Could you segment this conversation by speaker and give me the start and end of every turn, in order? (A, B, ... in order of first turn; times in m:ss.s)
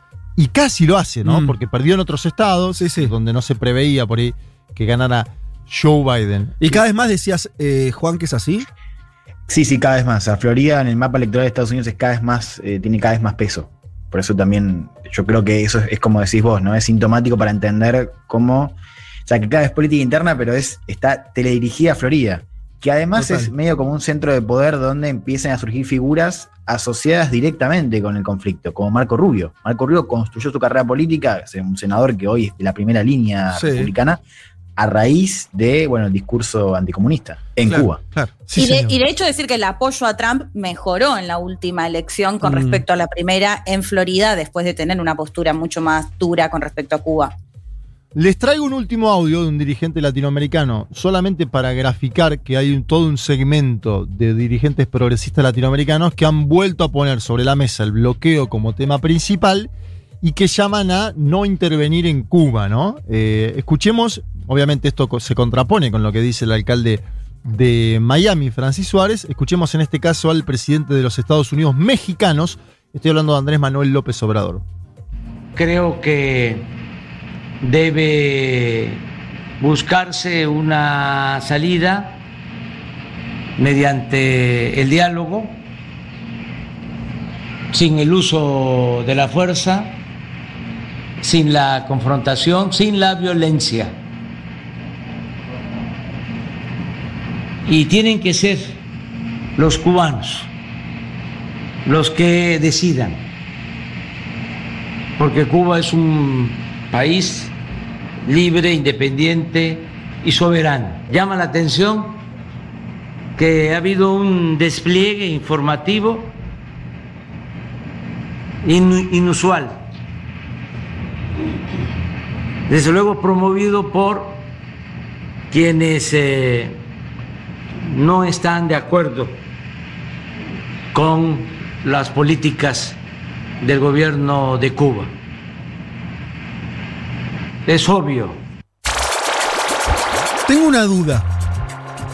0:00.4-0:06.8 A
0:01.2-0:01.6 B
0:02.8-0:03.1 B
0:06.6-0:08.6 B
0:09.5-0:34.2 C
0:23.2-0:23.5 B
0:33.5-0:33.9 B
0:34.8-0:38.0 C
0:37.6-0:38.3 B
0:38.5-0:39.0 A
0:38.6-0:47.3 D
0:42.4-0:42.8 B
0:48.1-0:59.7 A
1:00.2-1:14.6 A
1:15.6-1:16.7 E
1:17.6-1:19.0 E
1:19.6-1:22.2 E
1:23.6-1:25.6 E
1:27.7-1:30.0 E
1:31.2-1:34.0 E
1:37.6-1:38.8 E
1:39.6-1:40.5 E
1:41.8-1:43.3 E
1:45.2-1:47.5 E
1:48.2-1:52.2 E
1:53.4-1:56.4 E
1:58.6-1:59.9 E
2:02.7-2:04.5 E
2:05.5-2:06.8 E
2:07.8-2:09.4 E
2:10.9-2:13.0 E
2:13.6-2:15.2 E
2:17.6-2:18.4 E
2:20.5-2:21.2 B